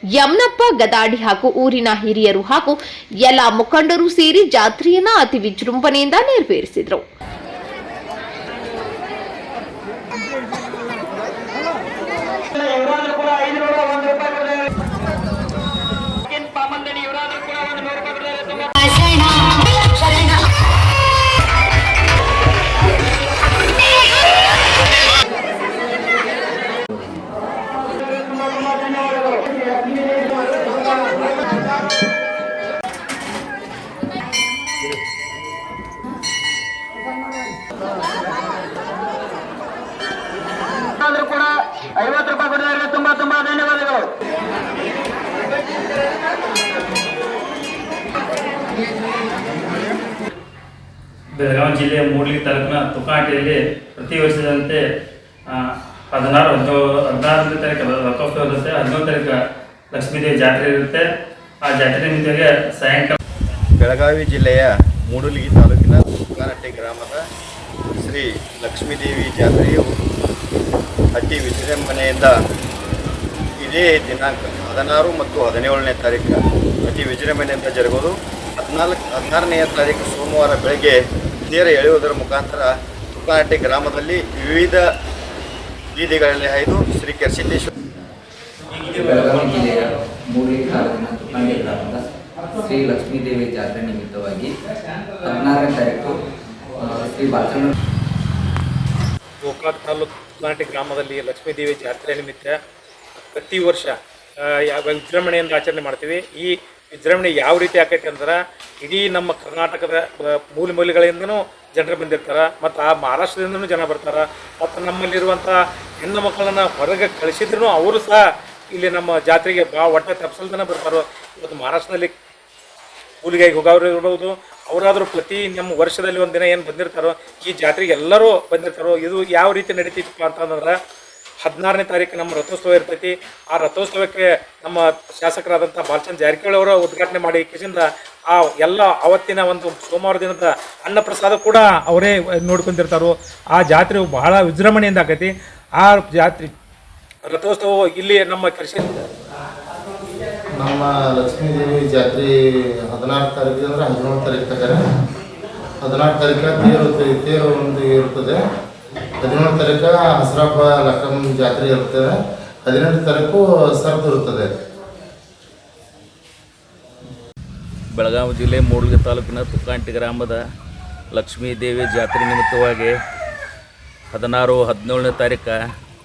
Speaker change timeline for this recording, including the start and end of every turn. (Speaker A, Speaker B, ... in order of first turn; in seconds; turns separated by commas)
Speaker A: 0.1-7.0, Speaker B: 12.6-14.6, Speaker B: 16.3-18.9, Speaker B: 28.9-29.5, Speaker B: 41.0-41.5, Speaker B: 42.0-44.0, Speaker C: 51.4-54.8, Speaker C: 55.5-59.3, Speaker C: 59.9-61.0, Speaker C: 61.6-63.1, Speaker D: 63.8-67.2, Speaker D: 68.0-69.9, Speaker D: 71.1-72.3, Speaker D: 73.6-84.8, Speaker D: 85.9-87.7, Speaker E: 88.8-94.5, Speaker F: 89.2-89.5, Speaker E: 95.2-96.2, Speaker E: 96.8-97.7, Speaker F: 99.4-102.6, Speaker F: 103.3-122.1, Speaker F: 123.2-130.8, Speaker F: 131.4-146.5, Speaker F: 147.2-149.1, Speaker G: 150.5-154.8, Speaker G: 155.8-158.4, Speaker G: 159.2-164.5, Speaker H: 167.9-170.4, Speaker H: 171.1-172.9, Speaker H: 174.1-175.6